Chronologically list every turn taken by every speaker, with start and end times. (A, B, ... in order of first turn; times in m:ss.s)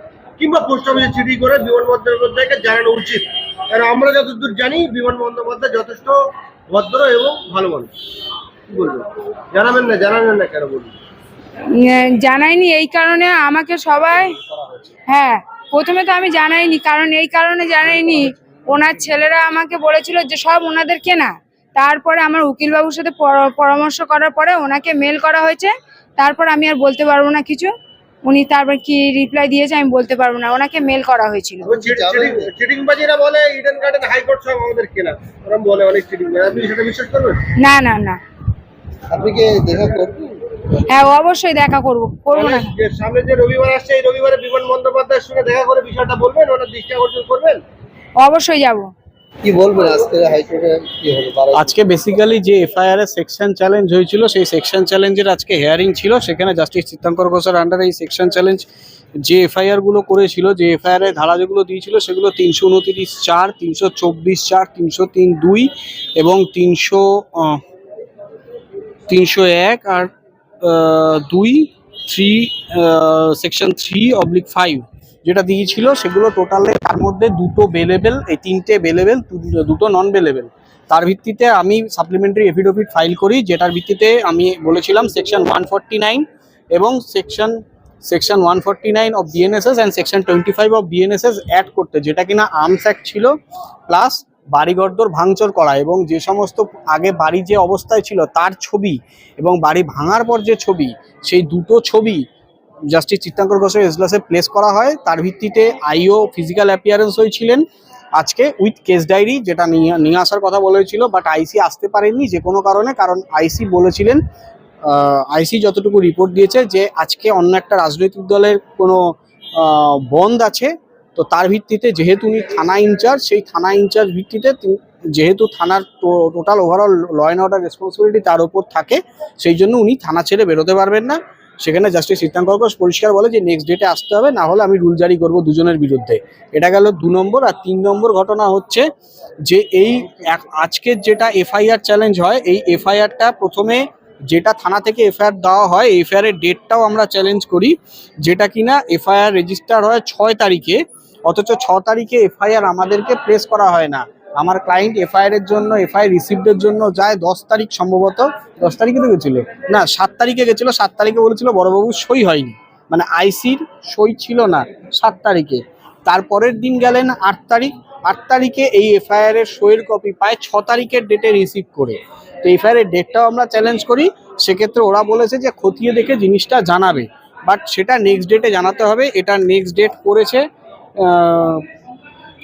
0:00.4-0:06.2 A
0:06.7-0:07.9 A
0:08.7-0:10.9 A
0:11.7-0:14.4 B
0:15.1-0:27.7 B
0:28.2-0:31.7 B
0:31.6-0:37.4 A
0:31.8-0:32.5 C
0:37.6-0:38.2 B
0:39.1-0:40.2 C
0:39.2-0:40.1 A
0:40.9-0:42.7 B
0:42.3-0:47.6 A
0:48.2-0:48.9 B
0:49.4-0:51.7 C
0:51.5-0:58.7 D
0:59.2-1:07.6 D
1:09.1-1:10.1 D
1:10.6-1:33.3 D
1:33.9-1:42.2 D
1:42.9-1:47.6 D
1:48.2-1:54.2 D
1:54.8-2:18.9 D
2:19.4-3:00.4 D
3:01.0-3:01.6 D